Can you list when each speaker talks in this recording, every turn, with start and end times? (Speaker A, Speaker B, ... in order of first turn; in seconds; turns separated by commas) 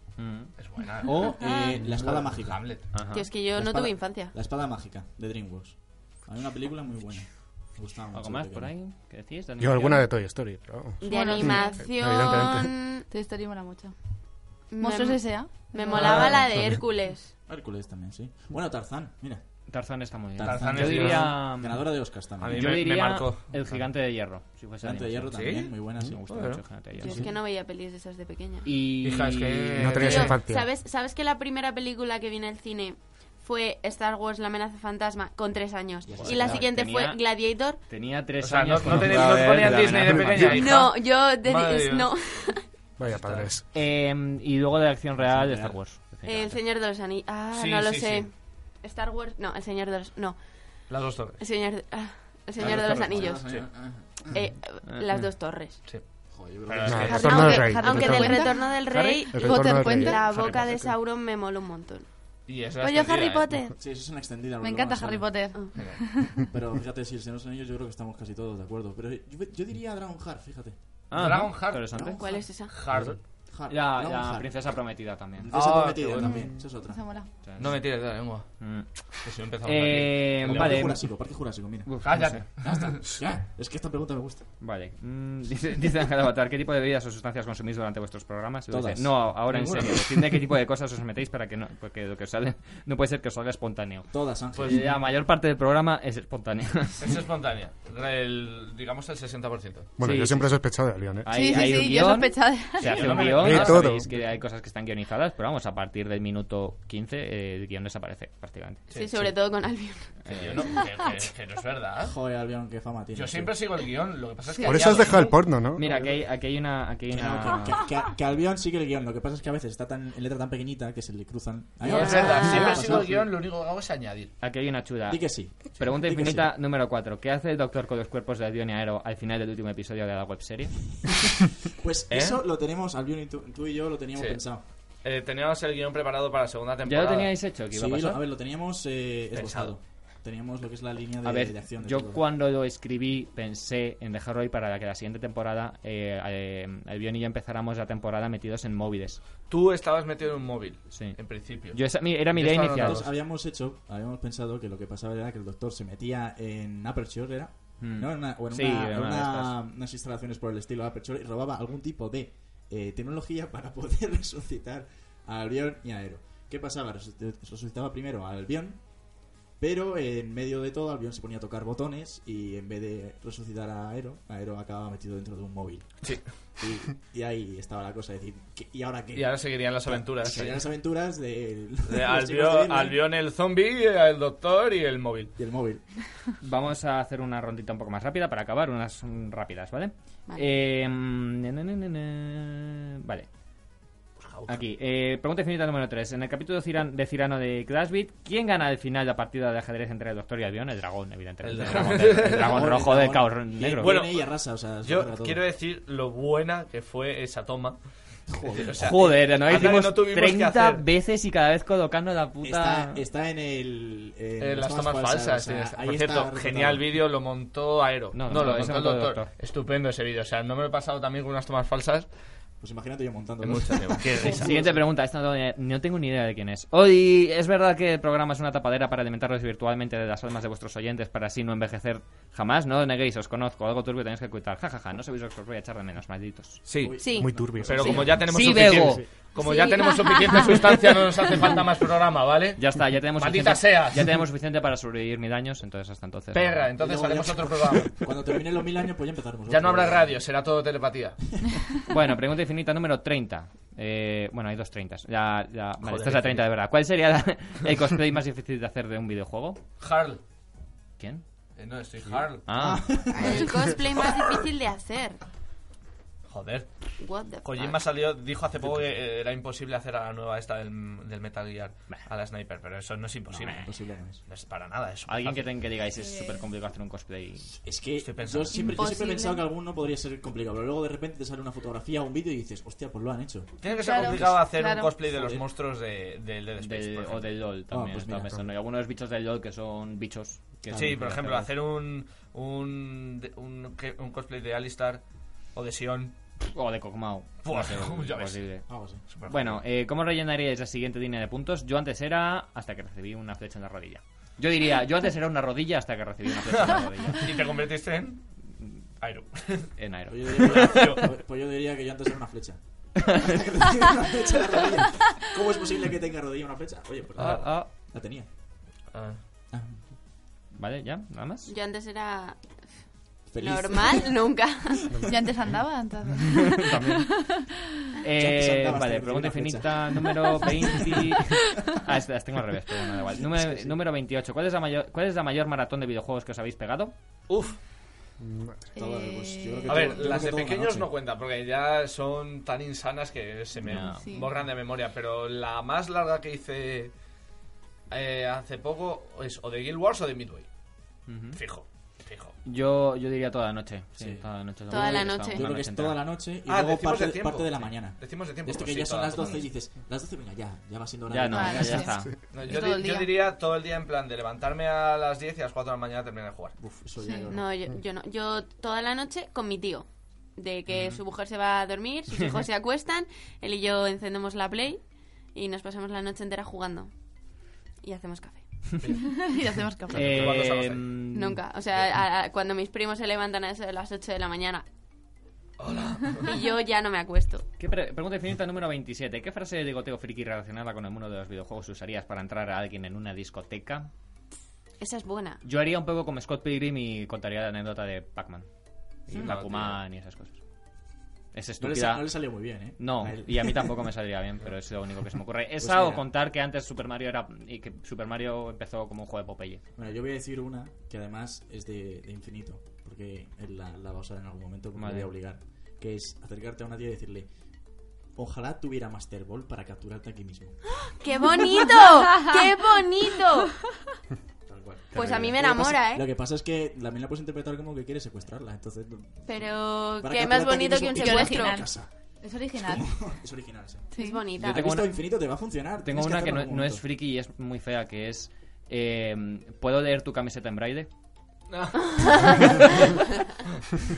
Speaker A: 0.2-0.6, Speaker B: 0.6-3.0, Speaker C: 1.0-8.7, Speaker D: 1.4-1.8, Speaker A: 2.9-3.3, Speaker E: 3.1-4.3, Speaker A: 8.1-10.1, Speaker F: 9.6-12.7, Speaker E: 11.0-13.1, Speaker D: 11.0-11.8, Speaker D: 13.1-13.9, Speaker D: 14.7-16.4, Speaker E: 14.7-17.3, Speaker B: 16.0-16.3, Speaker A: 16.0-16.4, Speaker F: 16.6-16.8, Speaker C: 17.5-19.4, Speaker A: 19.7-25.4, Speaker C: 20.4-22.8, Speaker B: 20.4-21.3, Speaker B: 22.4-23.6, Speaker C: 24.8-26.2, Speaker B: 25.3-25.7, Speaker A: 26.1-27.3, Speaker B: 26.3-26.6, Speaker E: 27.0-28.7, Speaker C: 27.0-27.3, Speaker A: 28.6-30.3, Speaker B: 29.0-30.4, Speaker F: 29.8-30.7, Speaker E: 30.0-37.9, Speaker C: 36.0-36.7, Speaker A: 36.2-40.6, Speaker B: 38.4-42.1, Speaker F: 38.9-40.6, Speaker E: 40.4-42.7, Speaker F: 43.0-43.7, Speaker B: 43.1-43.5, Speaker A: 43.7-46.6, Speaker C: 45.2-45.8, Speaker E: 46.2-50.9, Speaker B: 47.5-48.3, Speaker B: 50.9-51.4, Speaker E: 51.4-53.5, Speaker C: 52.6-54.4, Speaker A: 52.8-53.0, Speaker B: 53.2-53.7, Speaker E: 54.3-55.8, Speaker A: 54.9-55.3, Speaker C: 56.3-57.3, Speaker B: 56.6-57.4, Speaker F: 56.9-58.5, Speaker E: 57.1-62.1, Speaker D: 57.1-60.3, Speaker A: 58.9-59.3, Speaker F: 59.3-60.2, Speaker A: 60.3-60.9, Speaker B: 62.5-63.5, Speaker D: 62.8-63.8, Speaker C: 63.8-65.5, Speaker D: 64.6-66.4, Speaker B: 65.8-66.0, Speaker C: 66.3-70.8, Speaker A: 71.1-72.2, Speaker B: 71.1-73.2, Speaker C: 71.9-77.2, Speaker E: 72.2-72.8, Speaker A: 73.7-75.5, Speaker B: 75.5-76.5, Speaker D: 76.3-77.3, Speaker A: 77.4-82.5, Speaker B: 77.6-81.0, Speaker C: 80.4-84.5, Speaker B: 82.0-83.2, Speaker A: 84.6-94.1, Speaker C: 88.7-90.2, Speaker B: 89.5-90.0, Speaker C: 94.1-95.0, Speaker B: 94.5-94.9, Speaker A: 94.6-97.2, Speaker B: 97.0-99.9, Speaker F: 100.0-101.3, Speaker A: 100.0-108.9, Speaker D: 101.3-103.2, Speaker B: 102.8-104.3, Speaker F: 103.3-104.1, Speaker B: 108.9-109.3, Speaker E: 108.9-110.7, Speaker A: 110.2-110.8, Speaker B: 110.3-112.2, Speaker C: 112.0-113.5, Speaker B: 113.1-116.1, Speaker F: 114.6-115.8, Speaker A: 115.7-117.9, Speaker C: 115.8-116.1, Speaker C: 117.1-123.3, Speaker B: 121.8-124.4, Speaker E: 121.9-122.8, Speaker A: 124.4-130.7, Speaker C: 125.1-126.5, Speaker C: 131.7-134.6, Speaker B: 132.1-132.4, Speaker B: 134.2-134.4, Speaker B: 135.0-137.3, Speaker A: 136.8-138.2, Speaker C: 137.7-142.2, Speaker B: 139.3-139.7, Speaker A: 141.2-149.2, Speaker B: 149.5-153.1, Speaker A: 150.9-153.0, Speaker C: 152.7-183.0, Speaker A: 157.8-159.6, Speaker B: 176.0-176.3, Speaker B: 179.1-180.7, Speaker B: 181.9-185.3, Speaker C: 185.4-185.8, Speaker A: 186.4-193.3, Speaker B: 194.2-194.7, Speaker A: 194.4-203.9, Speaker B: 201.4-202.7, Speaker C: 201.6-205.4, Speaker B: 203.8-207.8, Speaker C: 208.3-209.1, Speaker B: 208.5-210.8, Speaker A: 208.7-213.0, Speaker C: 212.4-216.9, Speaker B: 214.4-222.1, Speaker A: 218.1-219.3, Speaker C: 222.6-224.9, Speaker B: 223.4-224.5, Speaker A: 224.2-236.7, Speaker B: 236.7-244.2, Speaker C: 236.7-238.3, Speaker E: 236.9-238.2, Speaker F: 237.2-239.0, Speaker A: 238.2-239.2, Speaker E: 239.3-240.7, Speaker A: 242.6-246.7, Speaker B: 246.3-248.1, Speaker C: 246.8-250.2, Speaker B: 249.5-251.2, Speaker A: 251.9-259.6, Speaker B: 255.8-256.5, Speaker B: 259.8-260.2, Speaker A: 261.0-261.2, Speaker B: 261.6-262.5, Speaker A: 262.4-263.4, Speaker C: 262.6-263.7, Speaker E: 263.1-265.2, Speaker B: 263.2-264.4, Speaker B: 266.3-273.7, Speaker E: 267.0-267.8, Speaker C: 268.6-269.0, Speaker C: 273.3-274.2, Speaker B: 274.3-275.5, Speaker A: 275.1-277.6, Speaker D: 276.0-276.3, Speaker C: 277.5-283.5, Speaker B: 278.0-278.8, Speaker E: 278.5-279.4, Speaker B: 283.6-287.4, Speaker D: 283.7-284.9, Speaker C: 285.1-285.4, Speaker A: 286.6-291.5, Speaker C: 287.7-288.5, Speaker C: 290.7-291.1, Speaker B: 290.7-295.0, Speaker B: 295.5-296.1, Speaker A: 296.4-298.7, Speaker B: 297.4-298.4, Speaker C: 298.7-299.2, Speaker B: 299.1-299.6, Speaker A: 299.2-307.4, Speaker B: 306.4-308.2, Speaker B: 309.0-309.8, Speaker A: 309.8-310.9, Speaker C: 310.1-318.3, Speaker B: 310.4-311.1, Speaker A: 313.0-313.3, Speaker B: 317.2-317.5, Speaker A: 317.2-317.7, Speaker B: 318.9-319.2, Speaker C: 319.5-319.8, Speaker A: 320.6-321.5, Speaker E: 321.4-322.6, Speaker C: 323.3-324.3, Speaker E: 323.4-324.9, Speaker D: 325.1-327.5, Speaker A: 326.4-327.4, Speaker A: 328.0-336.9, Speaker C: 328.1-331.8, Speaker C: 333.0-333.8, Speaker B: 337.3-337.6, Speaker F: 338.2-338.7, Speaker D: 338.7-340.3, Speaker C: 338.7-340.9, Speaker B: 339.7-346.9, Speaker A: 343.6-344.2, Speaker D: 343.8-344.3, Speaker B: 347.9-350.5, Speaker A: 351.1-351.4, Speaker B: 351.4-352.4, Speaker A: 352.4-356.0, Speaker C: 354.0-361.9, Speaker E: 354.7-355.4, Speaker B: 356.5-359.4, Speaker A: 361.1-362.1, Speaker D: 361.3-363.1, Speaker B: 362.3-366.6, Speaker C: 366.6-367.7, Speaker D: 367.0-367.3, Speaker E: 367.3-376.9, Speaker A: 370.7-371.0, Speaker E: 377.8-378.5, Speaker B: 378.8-379.3, Speaker D: 379.0-380.3, Speaker B: 379.9-380.9, Speaker A: 379.9-381.4, Speaker E: 381.1-384.7, Speaker B: 385.6-386.4, Speaker E: 386.3-387.5, Speaker A: 387.6-393.9, Speaker E: 394.8-395.4, Speaker A: 395.4-398.5, Speaker A: 399.1-400.4, Speaker B: 399.1-399.8, Speaker C: 399.1-399.6, Speaker A: 401.3-409.6, Speaker C: 401.6-403.9, Speaker C: 404.9-406.1, Speaker C: 409.7-417.3, Speaker A: 414.8-415.1, Speaker C: 418.1-420.6, Speaker E: 420.8-423.6, Speaker C: 424.5-431.9, Speaker E: 424.9-426.1, Speaker E: 429.3-431.7, Speaker D: 430.9-432.9, Speaker C: 432.6-436.9, Speaker D: 433.9-434.3, Speaker E: 433.9-434.7, Speaker A: 434.4-440.9, Speaker B: 441.5-442.7, Speaker E: 441.8-443.0